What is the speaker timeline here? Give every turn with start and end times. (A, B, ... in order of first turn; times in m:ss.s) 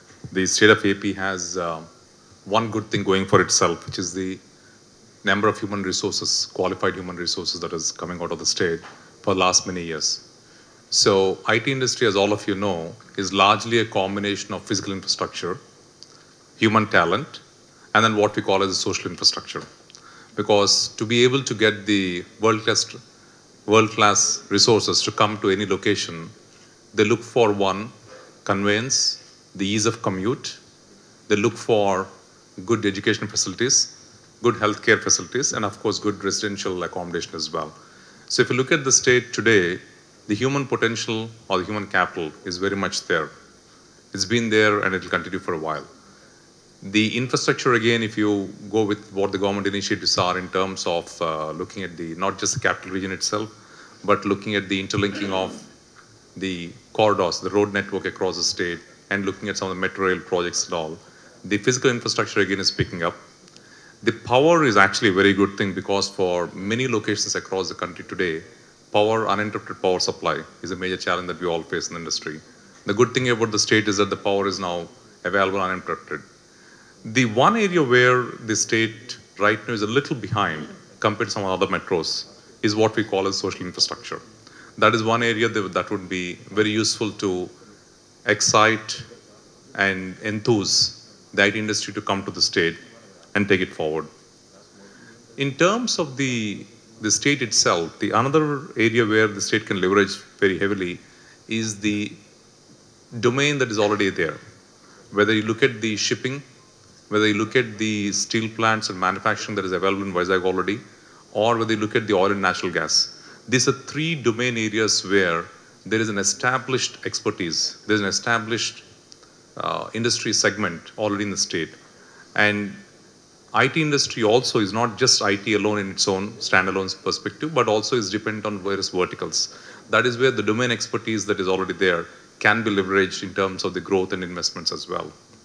0:00.3-0:01.9 A
0:02.5-0:04.4 A
0:05.2-0:10.2 A
0:10.9-0:15.6 A
0:16.6-0:17.4 A
0:17.9-0:19.7 A
0:20.4-0:23.0 A
0:23.7-0:26.3 A
0:26.9-0:27.9 A
0:28.4-0:30.6 A
0:31.3-0:37.7 A
0:38.3-0:43.3 A
0:44.1-0:45.9 A
0:46.8-0:53.5 A
0:54.0-0:55.7 A
0:56.4-1:03.2 A
1:04.0-1:16.2 A
1:17.0-1:24.2 A
1:24.8-1:27.5 A
1:28.3-1:29.0 A
1:29.8-1:32.8 A
1:33.3-1:34.1 A
1:35.4-1:42.2 A
1:43.1-1:44.4 A
1:45.1-1:46.4 A
1:47.1-1:50.8 A
1:51.3-1:58.8 A
1:59.6-2:01.8 A
2:02.4-2:02.8 A
2:03.5-2:15.1 A